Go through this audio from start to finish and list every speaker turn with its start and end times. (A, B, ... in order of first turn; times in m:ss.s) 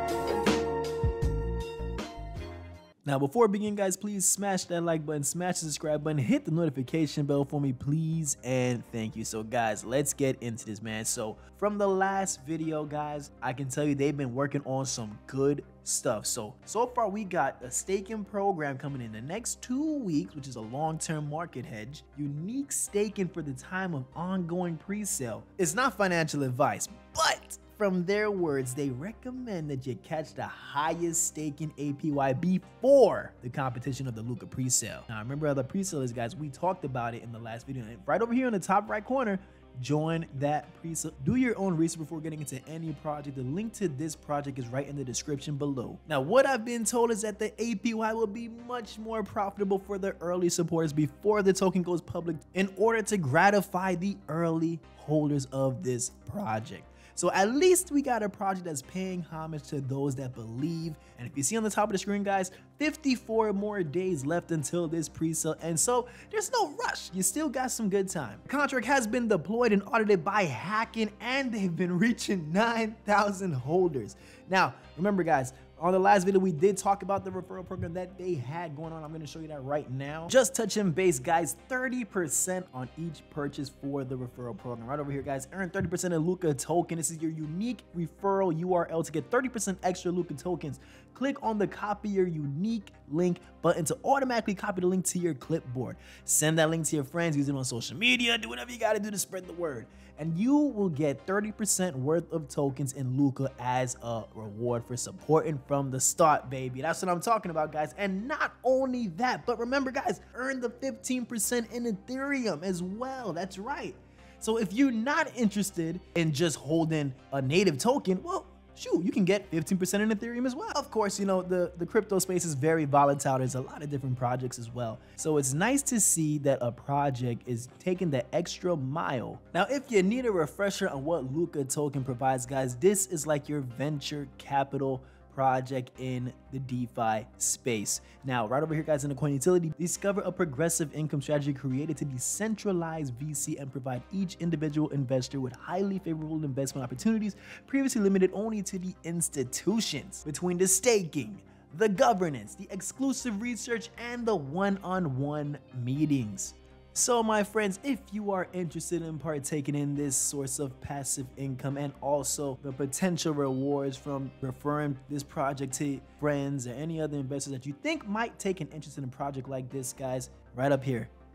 0:03.0-2:51.1 A